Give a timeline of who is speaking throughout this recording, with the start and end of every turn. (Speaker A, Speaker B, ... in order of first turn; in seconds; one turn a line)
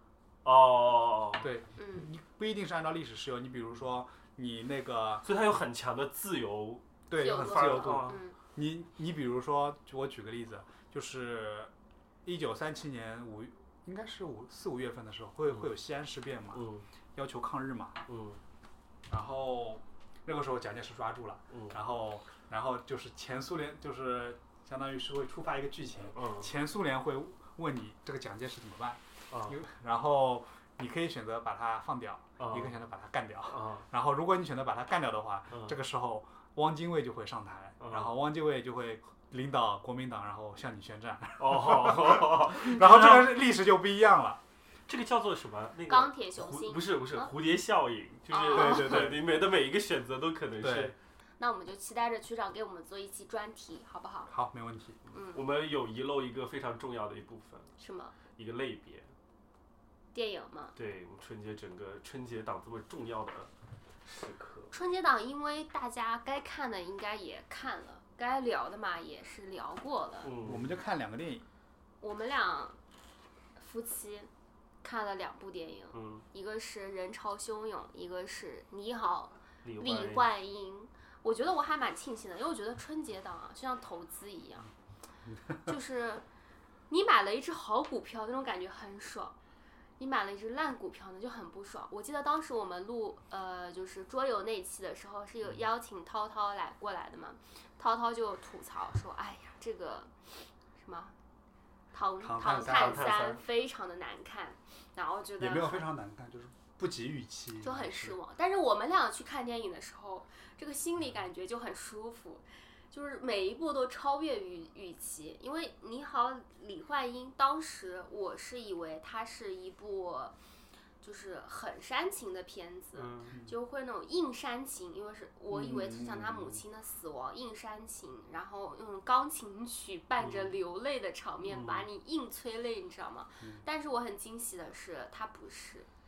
Speaker A: 0.4-1.5
Speaker B: 1.4-5.2
Speaker C: 1.8-2.1
Speaker A: 5.2-8.2
Speaker B: 7.1-11.7
Speaker C: 7.2-8.4
Speaker B: 12.2-18.0
Speaker A: 16.5-16.9
Speaker A: 18.1-18.4
Speaker B: 19.1-44.4
Speaker A: 21.5-21.8
Speaker A: 26.1-26.5
Speaker A: 29.3-29.6
Speaker A: 32.4-32.7
Speaker A: 33.5-33.9
Speaker A: 37.8-38.1
Speaker A: 41.4-43.4
Speaker A: 44.9-51.0
Speaker C: 45.9-47.3
Speaker C: 48.3-49.1
Speaker B: 48.5-49.2
Speaker B: 50.6-50.9
Speaker C: 51.4-54.3
Speaker B: 54.3-55.0
Speaker C: 55.1-55.4
Speaker A: 55.3-57.7
Speaker C: 57.8-58.1
Speaker A: 58.3-59.1
Speaker C: 60.1-60.7
Speaker A: 60.8-63.5
Speaker A: 64.0-64.7
Speaker C: 64.7-70.3
Speaker A: 70.2-70.8
Speaker B: 70.4-71.5
Speaker C: 72.0-72.8
Speaker C: 73.6-74.3
Speaker C: 74.8-84.7
Speaker A: 75.9-76.2
Speaker A: 79.6-80.3
Speaker B: 85.2-85.7
Speaker C: 85.7-86.2
Speaker C: 86.9-89.4
Speaker C: 90.0-101.1
Speaker C: 101.9-105.9
Speaker B: 102.2-103.4
Speaker A: 102.5-103.4
Speaker B: 105.4-108.2
Speaker C: 107.6-120.3
Speaker C: 121.0-135.9
Speaker A: 122.9-123.4
Speaker B: 123.3-123.6
Speaker B: 125.5-126.6
Speaker A: 130.2-130.6
Speaker A: 131.4-131.9
Speaker B: 133.4-133.7